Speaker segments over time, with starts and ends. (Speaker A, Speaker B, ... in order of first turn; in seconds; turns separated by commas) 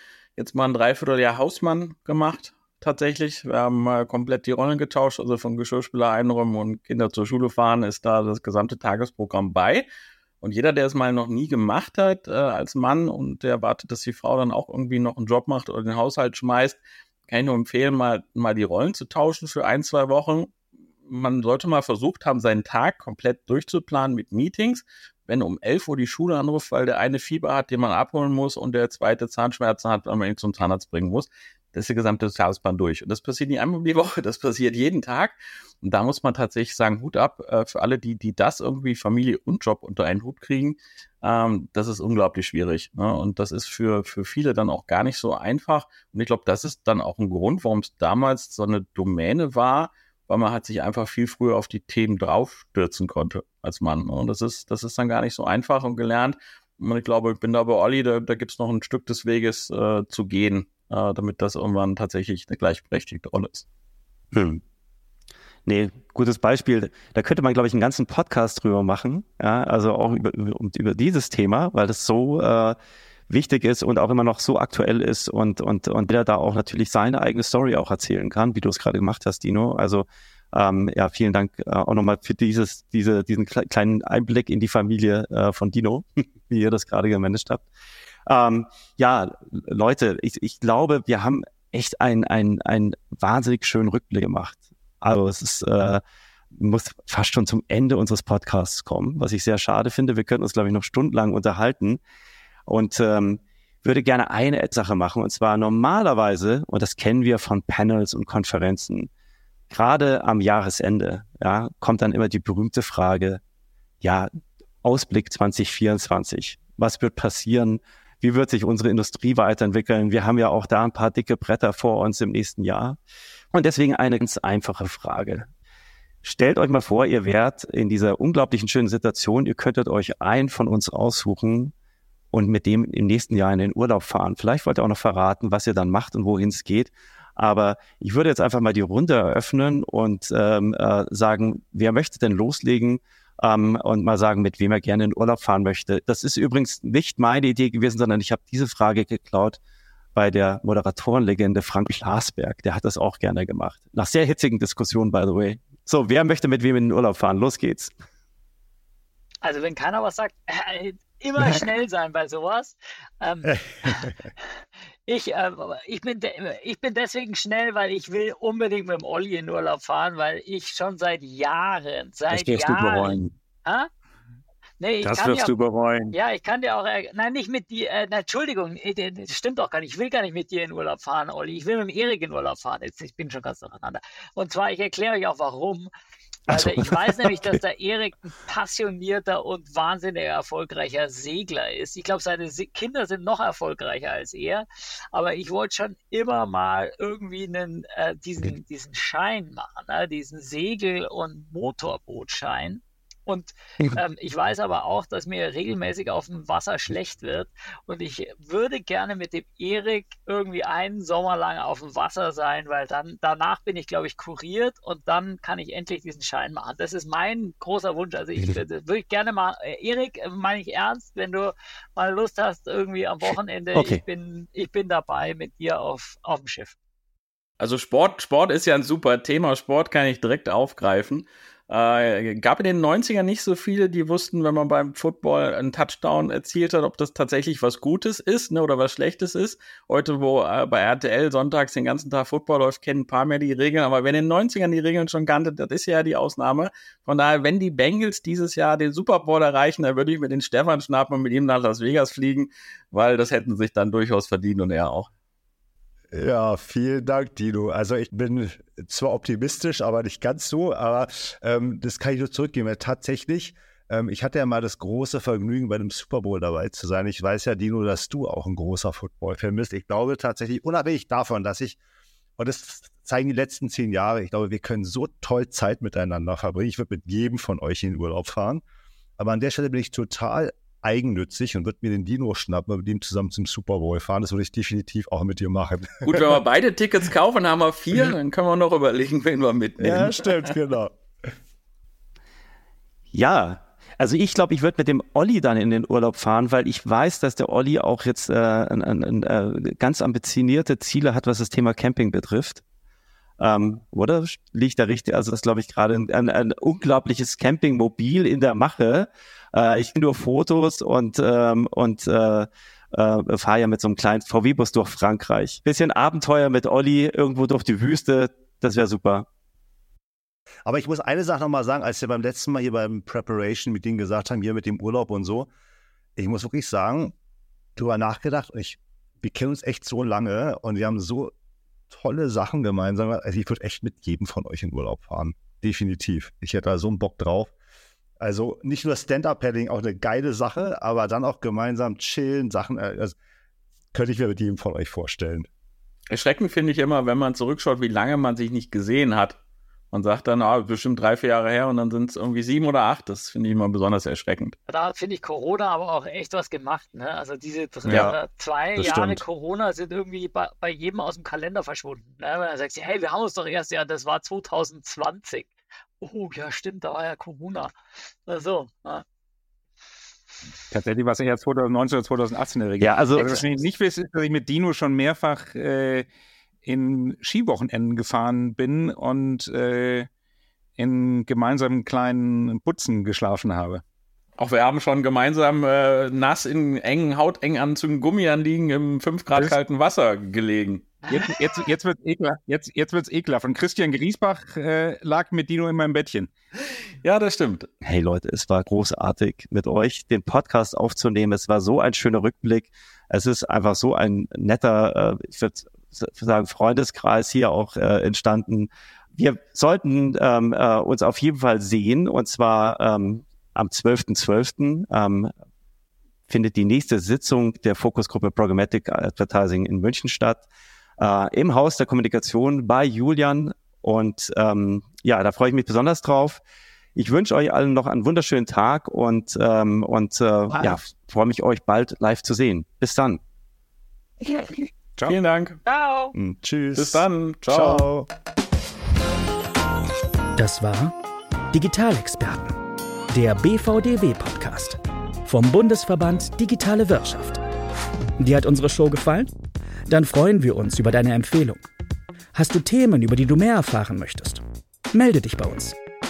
Speaker A: 0.4-9.9, Speaker A: 10.4-20.6, Speaker A: 21.1-63.6, Speaker B: 64.3-64.6, Speaker B: 65.7-72.8, Speaker B: 73.3-87.7, Speaker B: 88.3-96.0, Speaker B: 96.5-102.0, Speaker B: 102.7-109.1, Speaker B: 109.7-113.4, Speaker B: 114.0-114.3, Speaker B: 114.8-123.0, Speaker B: 123.5-125.5, Speaker B: 126.2-131.7, Speaker B: 132.3-149.6, Speaker B: 150.2-157.9, Speaker C: 159.4-164.1, Speaker D: 163.5-164.1, Speaker C: 165.1-173.9, Speaker E: 172.3-173.3, Speaker C: 174.8-175.6, Speaker E: 175.0-176.2, Speaker C: 176.1-185.9, Speaker C: 186.5-226.8, Speaker B: 223.8-224.0, Speaker A: 227.6-255.1, Speaker D: 256.1-271.8, Speaker D: 272.4-278.6, Speaker D: 279.2-286.3, Speaker A: 286.1-290.5, Speaker D: 289.8-290.9, Speaker B: 293.1-302.6, Speaker B: 303.4-319.3, Speaker D: 320.6-325.5, Speaker D: 326.2-327.1, Speaker D: 327.8-331.3, Speaker D: 331.9-337.5, Speaker D: 338.2-343.2, Speaker D: 343.9-345.5, Speaker A: 346.1-349.4, Speaker A: 349.9-354.6, Speaker C: 354.7-367.7, Speaker B: 357.9-358.2, Speaker B: 358.8-359.2, Speaker C: 368.3-369.0, Speaker E: 370.7-376.1, Speaker B: 372.8-373.4, Speaker E: 376.6-380.1, Speaker E: 380.8-383.8, Speaker A: 384.4-391.0, Speaker E: 391.1-396.3, Speaker A: 397.0-397.7, Speaker B: 397.8-415.3, Speaker B: 416.3-420.5, Speaker B: 421.0-426.4, Speaker B: 426.9-433.2, Speaker E: 430.5-430.8, Speaker A: 435.1-435.6, Speaker C: 435.7-436.1, Speaker D: 436.1-438.1, Speaker A: 436.8-437.9, Speaker F: 440.4-440.9, Speaker F: 441.5-442.6, Speaker F: 443.1-447.4, Speaker F: 448.2-449.3, Speaker F: 449.9-451.7, Speaker F: 452.3-455.8